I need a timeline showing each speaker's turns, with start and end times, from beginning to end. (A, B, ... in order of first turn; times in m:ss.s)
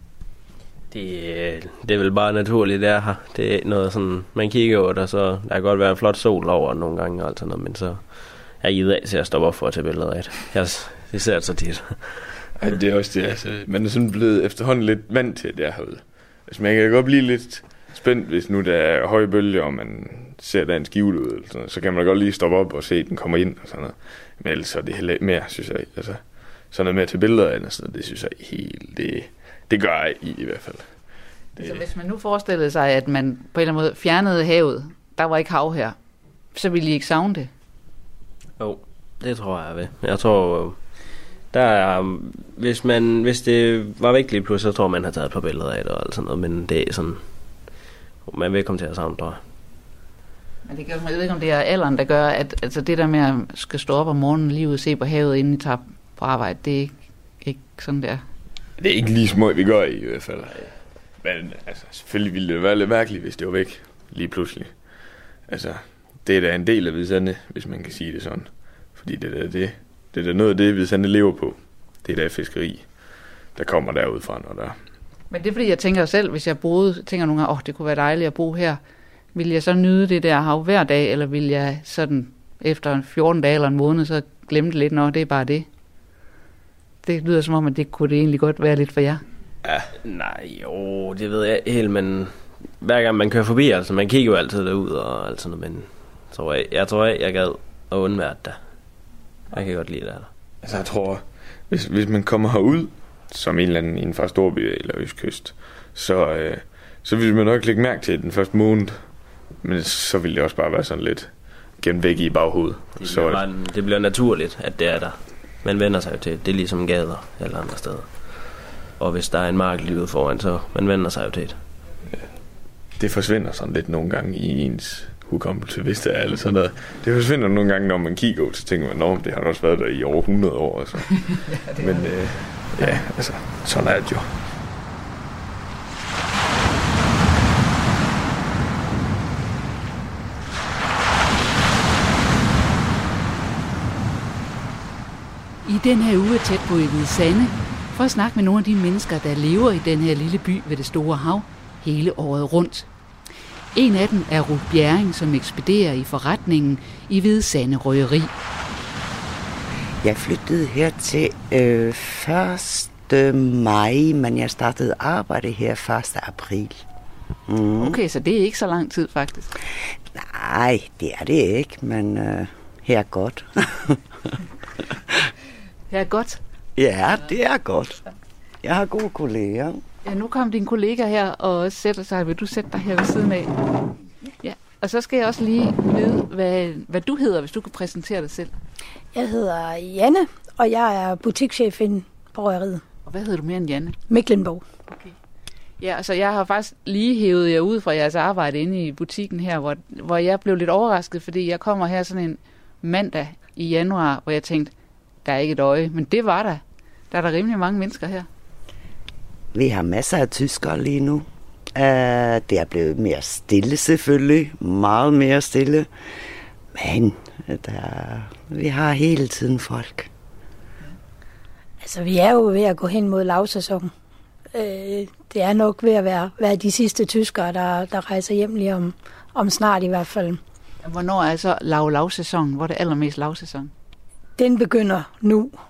0:00.9-0:12.4 A
0:12.6-0:31.8 B
0:31.6-0:36.0 C
0:36.5-0:37.5 C
0:38.6-0:49.4 A
0:50.6-0:58.2 C
0:58.8-1:14.8 B
1:15.3-1:18.8 C
1:19.3-1:25.7 C
1:27.0-1:29.2 C
1:29.7-1:38.6 A
1:39.5-1:40.3 A
1:40.6-1:53.4 B
1:53.0-2:01.6 A
2:03.0-2:14.3 B
2:11.5-2:13.0 C
2:25.6-2:32.9 C
2:33.7-2:38.3 C
2:40.0-2:46.8 D
2:47.5-2:48.0 D
2:47.8-2:49.5 C
2:50.1-2:54.0 D
2:55.9-2:56.4 C
2:56.8-2:58.0 D
2:58.6-2:59.8 D
3:00.0-3:03.6 C
3:04.4-3:08.5 C
3:09.1-3:12.8 E
3:13.0-3:14.0 C
3:14.1-3:14.6 E
3:14.9-3:15.1 C
3:15.8-3:24.7 C
3:25.2-3:28.3 C
3:29.5-3:35.9 D
3:36.7-3:40.1 D
3:41.8-3:43.9 E
3:44.5-3:50.4 E
3:50.8-3:53.7 C
3:54.4-3:55.6 E